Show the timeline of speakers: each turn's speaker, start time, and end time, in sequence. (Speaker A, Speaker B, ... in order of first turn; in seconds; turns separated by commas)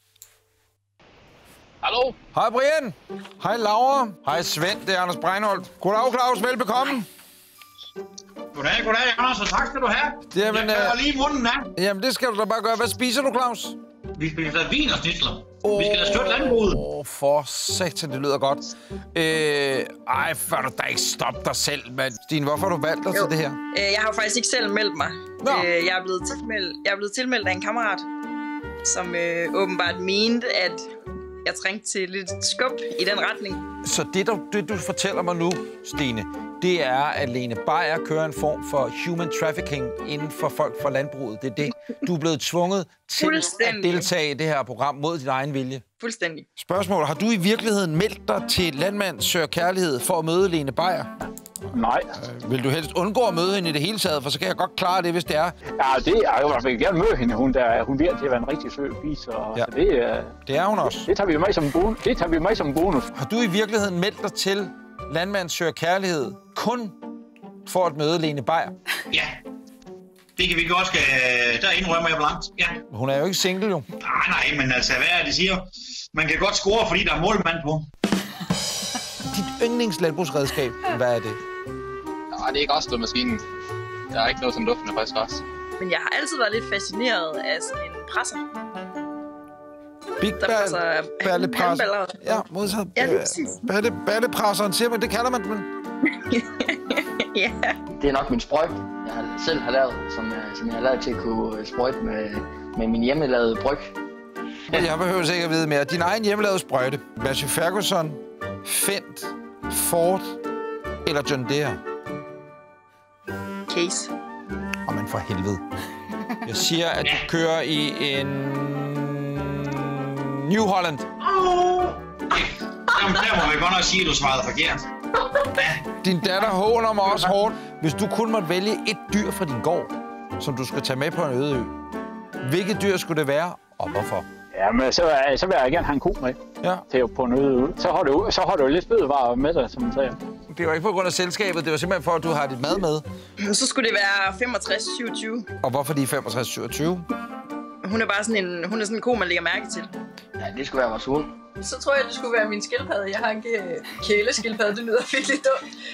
Speaker A: 1.8-2.2, Speaker B: 2.3-7.1, Speaker C: 8.5-11.7, Speaker B: 10.3-11.0, Speaker B: 11.8-13.8, Speaker C: 14.2-16.8, Speaker B: 15.6-23.6, Speaker D: 23.1-28.1, Speaker B: 25.4-25.7, Speaker D: 28.8-30.9, Speaker D: 31.4-33.6, Speaker B: 33.8-45.8, Speaker D: 43.2-44.1, Speaker D: 46.0-46.5, Speaker B: 46.6-51.1, Speaker E: 51.7-52.1, Speaker B: 52.2-55.6, Speaker E: 55.8-60.3, Speaker B: 60.5-61.1, Speaker E: 61.1-63.1, Speaker B: 63.1-67.0, Speaker B: 67.7-68.8, Speaker C: 70.4-72.8, Speaker B: 72.9-73.9, Speaker C: 74.0-77.9, Speaker B: 79.2-81.4, Speaker A: 82.3-83.4, Speaker A: 84.1-85.4, Speaker D: 85.8-88.4, Speaker B: 90.2-95.7, Speaker D: 90.4-92.3, Speaker D: 93.0-93.6, Speaker D: 96.1-97.8, Speaker F: 98.0-103.9, Speaker B: 104.7-110.4, Speaker B: 111.0-111.8, Speaker D: 113.7-114.1, Speaker B: 114.9-115.6, Speaker B: 116.5-121.1, Speaker C: 121.2-124.8, Speaker C: 125.5-125.8, Speaker B: 126.0-131.7, Speaker B: 132.4-134.3, Speaker E: 134.5-136.4, Speaker E: 136.9-140.2, Speaker B: 140.5-143.1, Speaker D: 143.4-145.5, Speaker B: 145.6-147.1, Speaker D: 147.8-149.9, Speaker F: 150.4-151.3, Speaker G: 151.6-155.5